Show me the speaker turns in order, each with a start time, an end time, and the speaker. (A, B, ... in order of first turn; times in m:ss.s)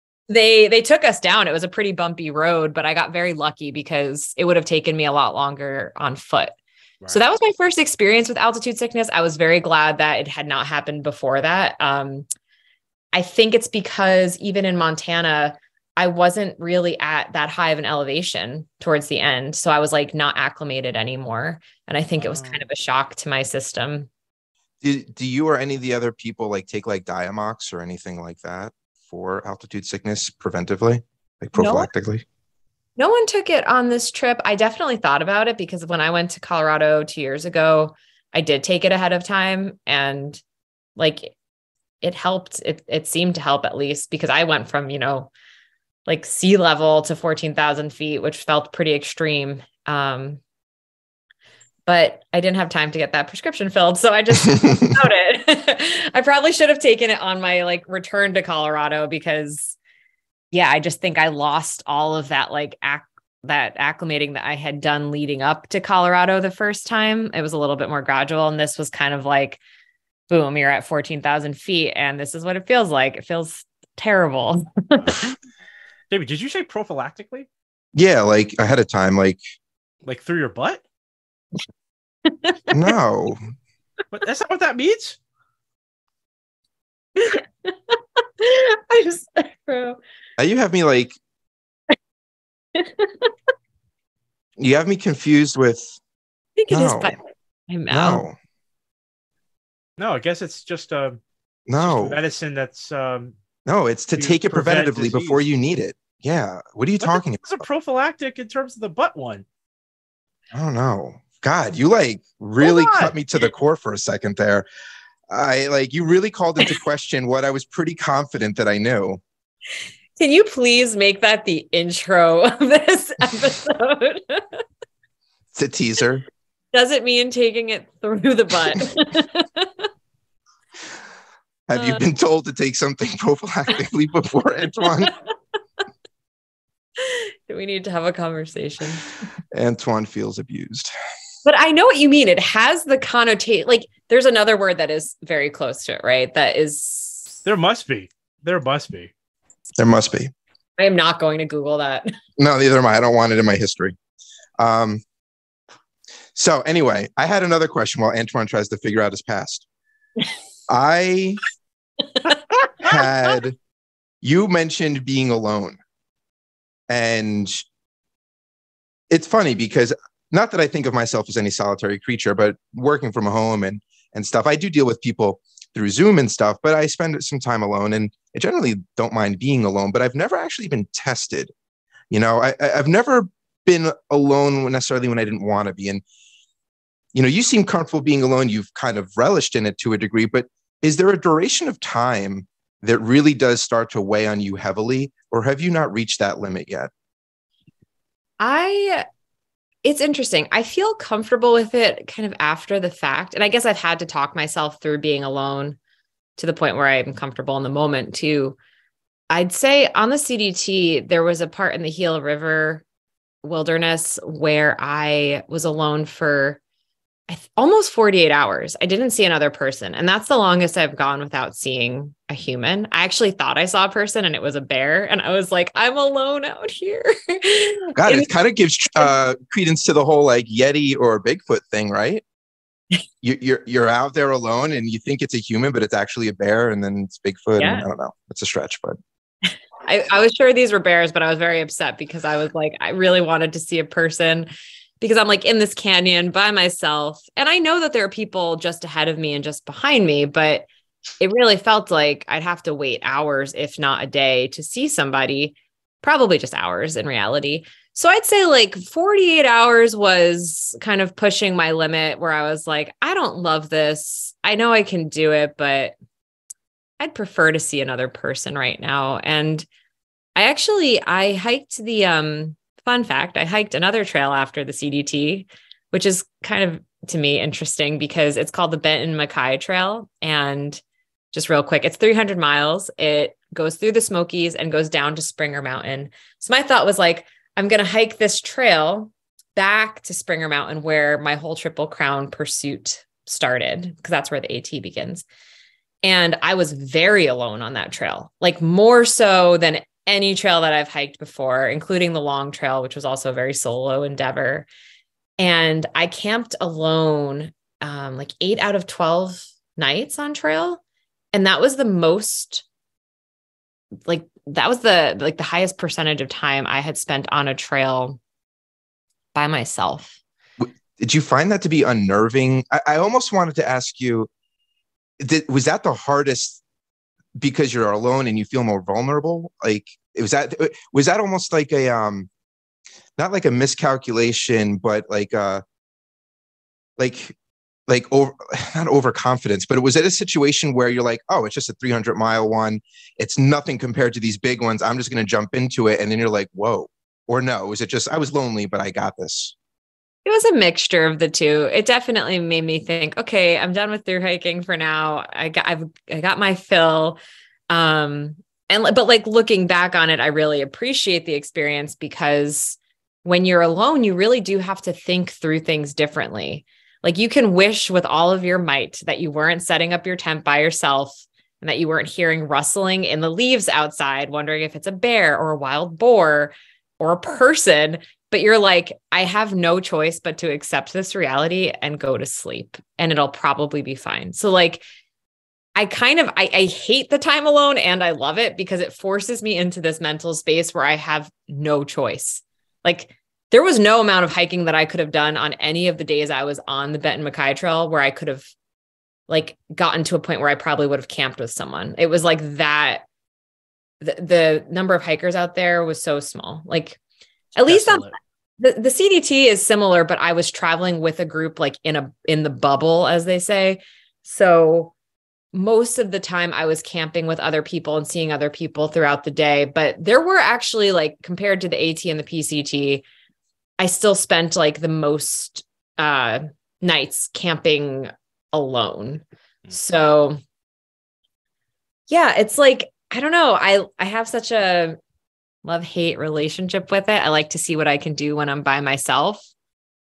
0:00.3-0:06.5 A
0:07.1-0:12.2 A
0:13.1-0:24.1 A
0:22.2-0:22.6 B
0:24.8-0:32.2 C
0:31.6-0:31.9 A
0:33.0-0:40.4 A
0:41.0-0:41.3 A
0:42.0-0:45.3 A
0:46.0-0:50.4 A
0:51.9-0:59.8 A
0:54.5-0:55.0 C
1:00.5-1:09.6 A
1:10.3-1:15.3 A
1:15.0-1:15.3 B
1:16.1-1:17.5 B
1:17.9-1:19.4 C
1:20.0-1:20.8 B
1:22.3-1:22.6 A
1:22.7-1:23.4 C
1:24.1-1:25.2 B
1:27.2-1:30.0 A
1:30.4-1:31.2 C
1:32.8-1:33.3 A
1:34.6-1:35.9 C
1:36.6-1:38.2 A
1:36.7-1:37.2 C
1:37.9-1:38.3 C
1:40.0-1:41.2 B
1:41.7-1:42.2 C
1:41.8-1:43.3 B
1:43.7-1:47.6 C
1:44.2-1:45.4 B
1:47.0-1:49.4 B
1:50.5-1:54.6 C
1:52.6-1:53.1 B
1:55.3-1:59.2 C
2:00.2-2:04.4 A
2:05.5-2:06.2 C
2:06.7-2:09.9 A
2:11.7-2:15.1 C
2:11.8-2:12.0 A
2:17.0-2:19.1 A
2:19.5-2:20.9 C
2:21.4-2:27.4 A
2:27.4-2:29.1 B
2:29.8-2:30.3 C
2:30.8-2:32.1 A
2:32.4-2:33.9 C
2:34.6-2:35.0 C
2:36.3-2:39.6 C
2:40.7-2:41.4 C
2:42.8-2:43.6 C
2:44.2-2:45.8 C
2:46.9-2:47.6 C
2:49.1-3:01.5 C
3:02.1-3:06.0 C
3:07.1-3:16.9 C
3:18.4-3:19.0 A
3:19.8-3:25.8 A
3:26.4-3:28.6 A
3:29.3-3:32.8 A
3:33.4-3:36.6 A
3:37.3-3:48.3 A
3:48.0-3:52.2 C
3:53.2-3:59.0 C
3:57.6-3:57.8 A
3:59.8-4:04.5 A
4:05.0-4:10.6 A
4:11.2-4:25.9 A
4:27.0-4:29.7 A
4:30.4-4:40.8 A
4:41.3-4:55.2 A
4:56.0-5:04.7 A
5:05.4-5:10.8 A
5:11.3-5:12.6 A
5:14.0-5:18.2 A
5:19.3-5:20.2 A
5:20.6-5:24.3 C
5:25.2-5:26.6 C
5:27.4-5:32.3 C
5:33.2-5:35.6 C
5:37.0-5:37.3 C
5:37.9-5:49.5 C
5:50.2-5:57.2 A
5:57.7-6:24.8 A
6:25.8-6:38.5 A
6:39.3-6:43.0 A
6:44.0-6:47.0 A
6:47.6-6:54.9 A
6:47.6-6:48.2 B
6:55.5-7:03.0 A
7:03.8-7:10.4 A
7:12.1-7:15.0 A
7:15.6-7:19.5 A